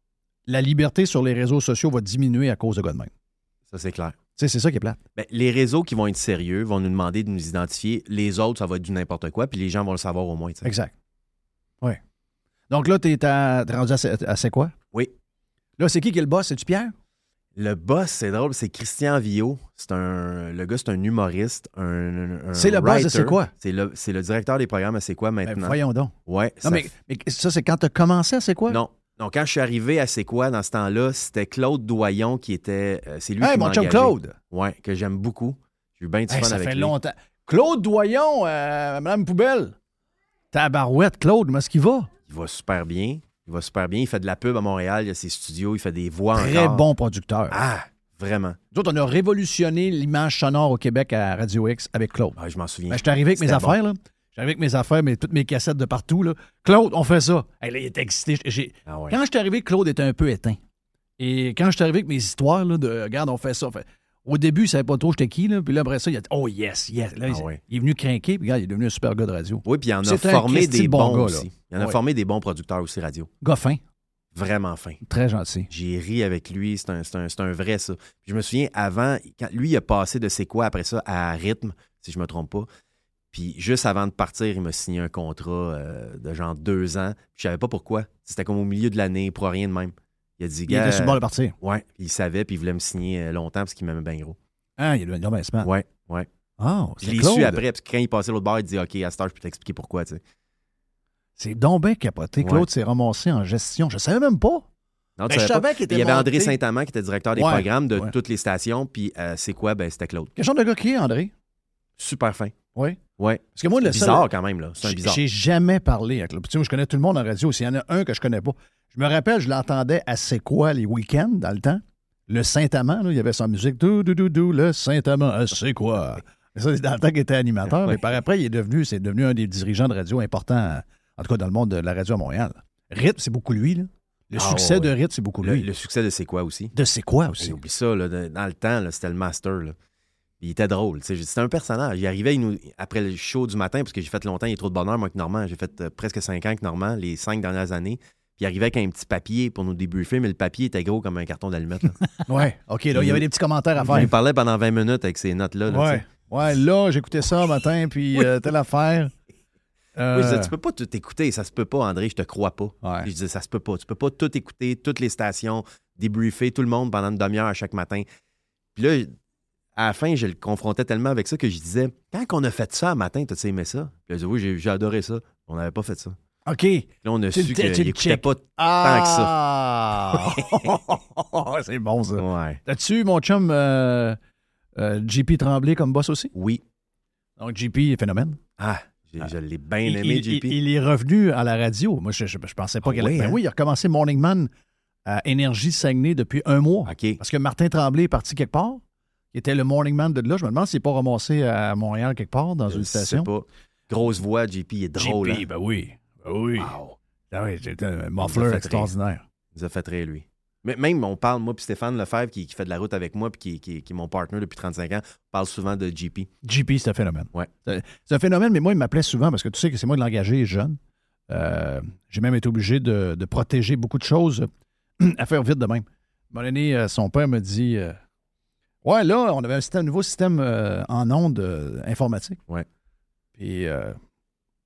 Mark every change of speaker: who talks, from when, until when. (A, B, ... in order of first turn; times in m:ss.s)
0:00.5-0:03.1 A
0:03.7-0:04.2 B
0:04.4-0:05.0 A
0:05.2-0:10.7 B
0:10.6-0:10.9 A
0:12.7-0:14.7 A
0:15.8-0:16.9 A
0:17.6-0:26.9 B
0:22.5-0:23.5 A
0:25.4-0:28.8 A
0:28.7-0:36.9 B
0:33.4-0:34.3 A
0:36.3-0:39.7 A
0:40.5-0:42.1 A
0:42.3-0:46.8 B
0:46.3-0:47.6 A
0:47.5-0:48.6 B
0:48.7-0:52.4 A
0:52.4-0:53.8 B
0:52.9-1:00.6 A
0:58.9-0:59.2 B
1:01.2-1:12.0 A
1:07.3-1:07.6 B
1:09.6-1:13.3 B
1:13.4-1:13.8 A
1:14.3-1:15.0 B
1:15.0-1:15.7 A
1:15.7-1:22.7 B
1:23.3-1:34.4 B
1:30.7-1:31.5 A
1:34.8-1:35.7 A
1:35.6-1:36.3 B
1:36.6-1:37.6 A
1:37.0-1:40.2 B
1:41.4-1:44.6 A
1:42.4-1:42.7 B
1:45.2-1:50.3 B
1:45.3-1:46.6 A
1:47.3-1:48.1 A
1:50.4-1:51.3 A
1:52.0-1:52.5 B
1:52.7-1:53.0 A
1:53.2-1:55.2 B
1:53.5-1:54.3 A
1:54.8-2:15.7 A
2:07.7-2:08.0 B
2:14.3-2:16.7 B
2:16.7-2:17.6 A
2:17.4-2:19.7 B
2:20.4-2:32.0 B
2:32.2-2:34.1 A
2:32.9-2:33.2 B
2:33.8-2:36.0 B
2:35.7-2:39.1 A
2:40.0-2:40.5 A
2:40.1-2:48.0 B
2:42.8-2:43.1 A
2:48.7-2:49.1 B
2:49.8-2:56.2 B
2:56.4-3:04.2 A
2:57.0-2:59.4 B
3:00.1-3:00.7 B
3:02.2-3:02.6 B
3:04.8-3:06.3 A
3:06.3-3:06.6 B
3:07.4-3:08.4 A
3:08.6-3:10.6 B
3:09.8-3:14.5 A
3:12.8-3:13.4 B
3:15.0-3:18.8 A
3:16.8-3:17.2 B
3:19.3-3:23.3 A
3:22.7-3:25.4 B
3:25.0-3:26.7 A
3:26.6-3:27.0 B
3:27.3-3:29.2 A
3:28.2-3:28.9 B
3:29.5-3:36.3 B
3:36.4-3:44.5 A
3:45.0-3:48.0 A
3:48.8-3:52.4 A
3:53.4-3:54.0 A